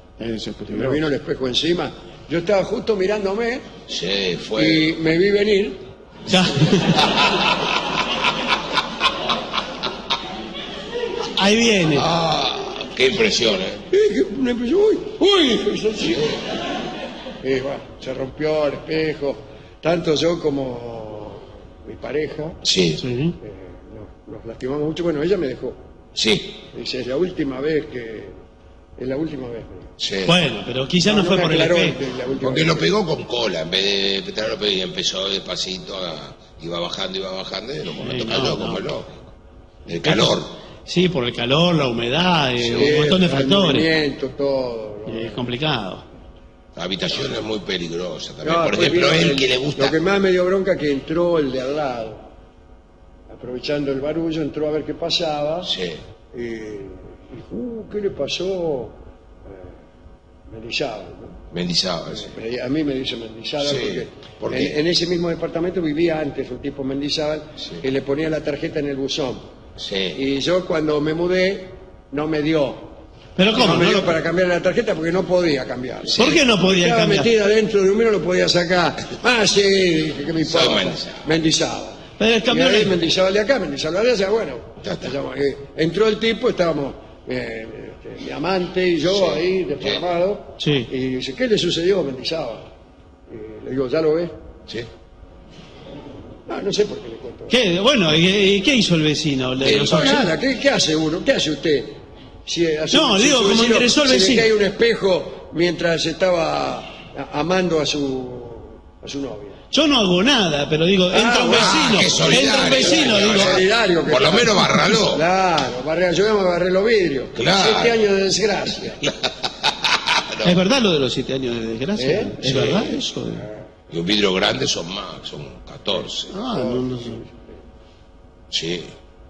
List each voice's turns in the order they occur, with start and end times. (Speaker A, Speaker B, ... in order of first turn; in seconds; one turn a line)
Speaker A: 0.2-1.0
Speaker B: 0.7-3.6
Speaker C: 3.9-4.9
Speaker B: 4.5-5.8
Speaker A: 6.3-7.1
Speaker C: 6.9-7.5
Speaker A: 11.3-12.1
Speaker C: 11.9-13.8
Speaker B: 13.9-16.4
Speaker C: 16.1-16.4
Speaker B: 17.4-22.6
Speaker C: 22.6-23.0
Speaker A: 23.0-23.3
Speaker B: 23.4-25.8
Speaker C: 26.1-26.6
Speaker B: 26.7-28.4
Speaker B: 29.0-29.9
Speaker C: 30.0-30.4
Speaker A: 30.2-32.0
Speaker B: 31.0-32.9
Speaker C: 32.4-39.3
Speaker A: 38.0-38.8
Speaker C: 39.9-40.5
Speaker A: 40.0-43.9
Speaker B: 42.7-45.4
Speaker A: 45.1-46.0
Speaker C: 46.8-50.0
Speaker B: 48.4-52.2
Speaker B: 53.3-55.7
Speaker C: 55.6-56.0
Speaker B: 56.3-59.7
Speaker B: 60.5-61.4
Speaker C: 61.5-62.4
Speaker B: 62.1-69.4
Speaker C: 63.6-64.8
Speaker C: 69.8-70.2
Speaker B: 70.1-72.9
Speaker A: 73.3-74.1
Speaker B: 73.5-82.0
Speaker A: 76.2-77.3
Speaker C: 80.4-81.3
Speaker A: 82.2-82.9
Speaker B: 82.5-92.7
Speaker C: 84.8-85.1
Speaker C: 89.1-90.0
Speaker A: 90.6-90.9
Speaker B: 93.3-94.3
Speaker B: 96.5-97.5
Speaker A: 97.5-100.3
Speaker C: 99.6-100.2
Speaker B: 99.8-109.6
Speaker A: 102.9-104.5
Speaker A: 109.7-113.6
Speaker B: 111.1-119.0
Speaker C: 111.5-115.2
Speaker C: 117.3-118.0
Speaker C: 119.0-120.5
Speaker A: 120.4-123.4
Speaker B: 122.0-122.9
Speaker C: 122.4-122.9
Speaker C: 123.9-126.3
Speaker A: 126.3-127.2
Speaker B: 126.3-127.5
Speaker C: 128.5-128.9